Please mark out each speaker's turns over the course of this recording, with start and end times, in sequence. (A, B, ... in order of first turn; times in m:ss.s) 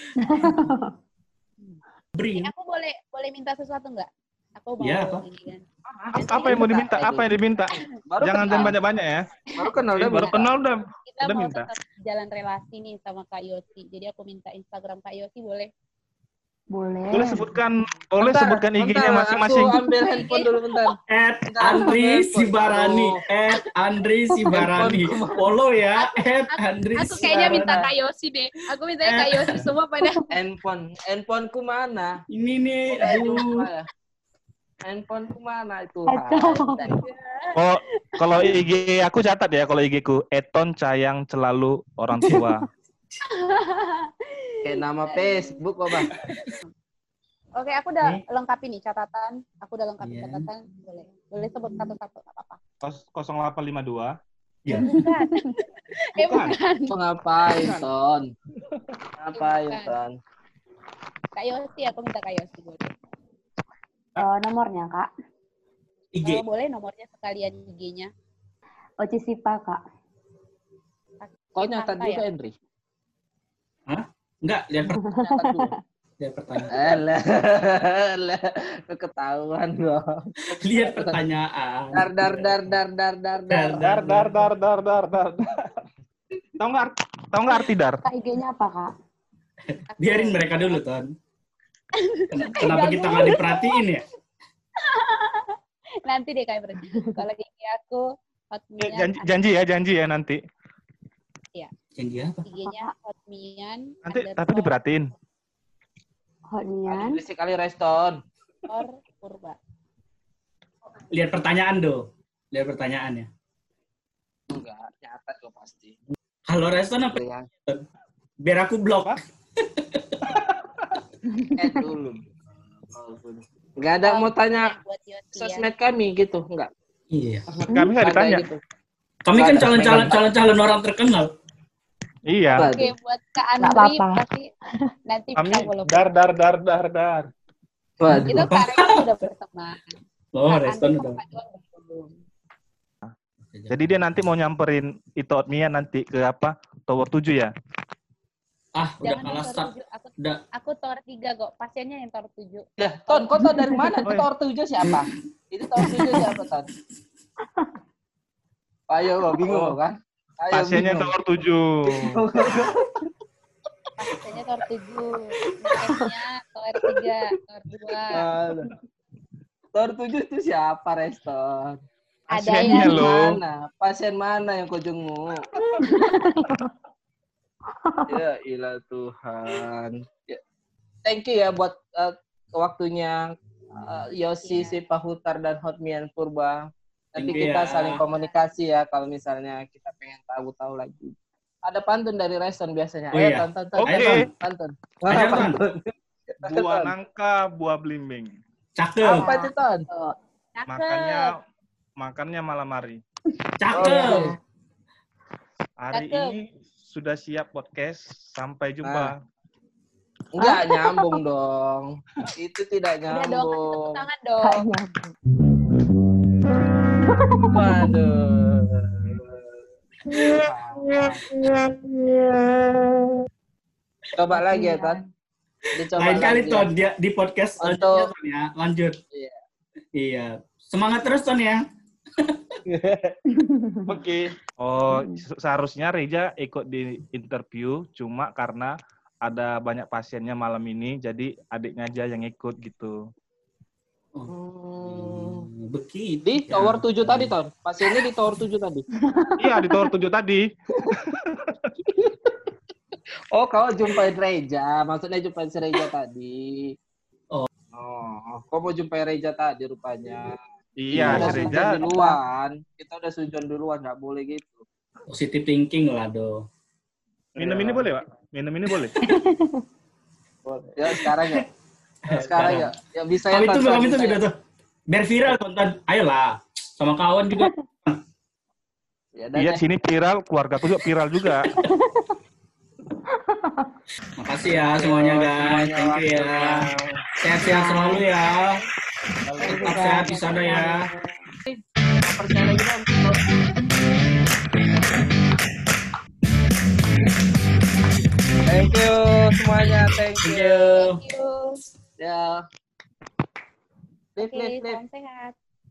0:00.2-0:00.9 A
0:02.1-0:02.5 B
0:02.4-0:05.6 C
0:04.8-0:05.2 B
0:05.9-0:07.3 D
0:06.1-0:09.2 E
0:06.1-0:07.2 C
0:08.1-0:08.7 D
0:08.5-0:08.7 C
0:09.5-0:10.4 C
0:09.5-0:10.5 D
0:09.9-0:11.7 E
0:11.0-0:15.7 C
0:16.7-0:17.5 A
0:17.1-0:19.8 E
0:18.2-0:23.2 D
0:20.0-0:20.9 C
0:21.1-0:27.9 B
0:24.5-0:25.5 D
0:26.0-0:30.2 C
0:29.0-0:29.7 B
0:30.3-0:32.2 D
0:32.3-0:33.7 B
0:32.9-0:33.9 D
0:34.8-0:37.0 D
0:36.1-0:37.0 A
0:36.3-0:37.6 C
0:37.5-0:42.7 E
0:38.2-0:38.6 C
0:42.2-0:42.5 B
0:43.3-0:45.6 C
0:44.6-0:46.1 D
0:47.6-0:52.6 C
0:50.0-0:50.5 B
0:52.8-0:54.1 E
0:54.6-0:54.9 B
0:54.8-0:55.6 A
0:54.8-0:57.0 C
0:56.2-0:56.6 E
0:56.9-0:58.3 D
0:57.6-0:57.9 E
0:59.2-1:00.2 D
0:59.3-1:00.0 C
1:01.3-1:02.9 C
1:04.2-1:05.1 A
1:06.1-1:06.4 B
1:06.2-1:08.1 C
1:09.0-1:09.8 A
1:11.2-1:12.2 C
1:11.6-1:12.5 D
1:13.9-1:15.0 B
1:14.9-1:15.7 A
1:15.1-1:15.7 D
1:16.2-1:17.0 B
1:16.7-1:21.2 D
1:20.5-1:22.7 B
1:21.9-1:24.3 D
1:23.5-1:24.3 B
1:23.8-1:25.8 E
1:26.6-1:28.0 E
1:28.0-1:28.9 A
1:29.7-1:31.1 B
1:29.9-1:30.8 C
1:32.0-1:33.8 C
1:32.3-1:34.0 B
1:34.8-1:39.4 C
1:36.9-1:37.2 A
1:38.8-1:40.4 E
1:42.0-1:42.4 B
1:42.4-1:44.7 C
1:42.6-1:42.9 A
1:44.1-1:45.1 E
1:46.5-1:47.2 A
1:46.9-1:48.2 D
1:48.6-1:49.6 C
1:51.1-1:53.3 B
1:54.5-1:56.0 D
1:56.5-1:57.8 B
1:57.0-1:57.5 D
1:58.4-2:00.2 B
2:00.3-2:00.6 E
2:01.3-2:01.8 A
2:01.6-2:02.2 D
2:02.9-2:04.8 D
2:04.0-2:05.7 C
2:05.4-2:06.7 D
2:07.1-2:07.5 B
2:07.5-2:08.4 E
2:08.0-2:08.6 D
2:09.2-2:11.3 B
2:09.3-2:10.2 D
2:12.3-2:12.7 E
2:12.6-2:12.9 D
2:12.6-2:14.5 C
2:13.6-2:14.2 A
2:15.1-2:16.1 C
2:15.4-2:17.3 E
2:18.0-2:18.5 D
2:18.1-2:19.0 B
2:18.2-2:20.0 C
2:20.3-2:21.2 B
2:20.5-2:22.2 C
2:23.4-2:23.8 B
2:23.7-2:27.5 E
2:28.8-2:30.4 B
2:29.0-2:33.8 C
2:32.8-2:36.7 D
2:33.5-2:33.8 A
2:38.9-2:41.1 D
2:39.4-2:39.7 E
2:40.5-2:42.2 E
2:42.0-2:42.8 D
2:44.0-2:48.2 C
2:48.1-2:48.7 D
2:49.7-2:51.8 D
2:52.3-2:53.1 C
2:52.3-2:53.4 E
2:52.5-2:55.4 D
2:55.8-2:56.7 A
2:55.9-2:56.3 C
2:57.7-2:58.2 A
2:58.1-3:00.4 D
3:01.0-3:16.9 D
3:04.3-3:04.8 C
3:07.2-3:08.0 B
3:07.3-3:08.4 C
3:13.1-3:14.3 B
3:13.8-3:14.2 E
3:15.1-3:15.6 B
3:16.4-3:18.3 E
3:18.8-3:19.3 B
3:19.1-3:19.8 D
3:19.1-3:21.3 C
3:20.7-3:21.4 E
3:22.0-3:23.0 E
3:23.6-3:24.3 B
3:23.7-3:24.4 D
3:25.8-3:29.2 E
3:25.9-3:26.3 C
3:28.8-3:29.1 D
3:30.3-3:34.0 D
3:30.4-3:31.2 A
3:33.1-3:34.6 C
3:34.4-3:35.2 A
3:37.0-3:37.9 A
3:37.5-3:41.3 D
3:44.2-3:45.0 D
3:44.3-3:45.0 A
3:45.7-3:46.7 D
3:45.9-3:49.0 B
3:47.6-3:48.1 D
3:49.1-3:49.4 D
3:50.0-3:51.6 B
3:52.2-3:52.6 B
3:52.7-3:53.2 D
3:53.3-3:54.0 A
3:53.9-4:03.0 E
3:54.9-3:55.2 A
4:04.2-4:07.3 B
4:04.3-4:05.5 D
4:06.2-4:08.8 D
4:09.1-4:09.9 A
4:09.4-4:11.7 E
4:11.9-4:12.3 D
4:13.3-4:16.7 D
4:17.7-4:20.4 D
4:20.8-4:21.8 E
4:20.9-4:21.5 B
4:20.9-4:24.6 D
4:21.2-4:22.2 A
4:25.1-4:26.4 B
4:27.4-4:27.8 D
4:27.4-4:28.9 E
4:29.0-4:29.6 A
4:30.4-4:31.4 D
4:30.9-4:31.4 B
4:32.1-4:32.7 B
4:32.1-4:34.2 D
4:33.3-4:34.3 B
4:34.9-4:38.0 B
4:39.2-4:39.6 D
4:39.4-4:41.5 E
4:41.6-4:42.2 A
4:43.1-4:43.8 A
4:44.2-4:46.7 B
4:44.7-4:47.0 D
4:47.2-4:48.6 B
4:47.4-4:48.0 A
4:49.3-4:50.7 E
4:49.4-4:51.2 A
4:49.5-4:50.9 B
4:51.5-4:53.3 D
4:58.4-5:00.8 D
5:00.2-5:01.0 B
5:00.8-5:01.6 C
5:02.0-5:02.4 D
5:04.2-5:04.8 D
5:04.2-5:05.3 C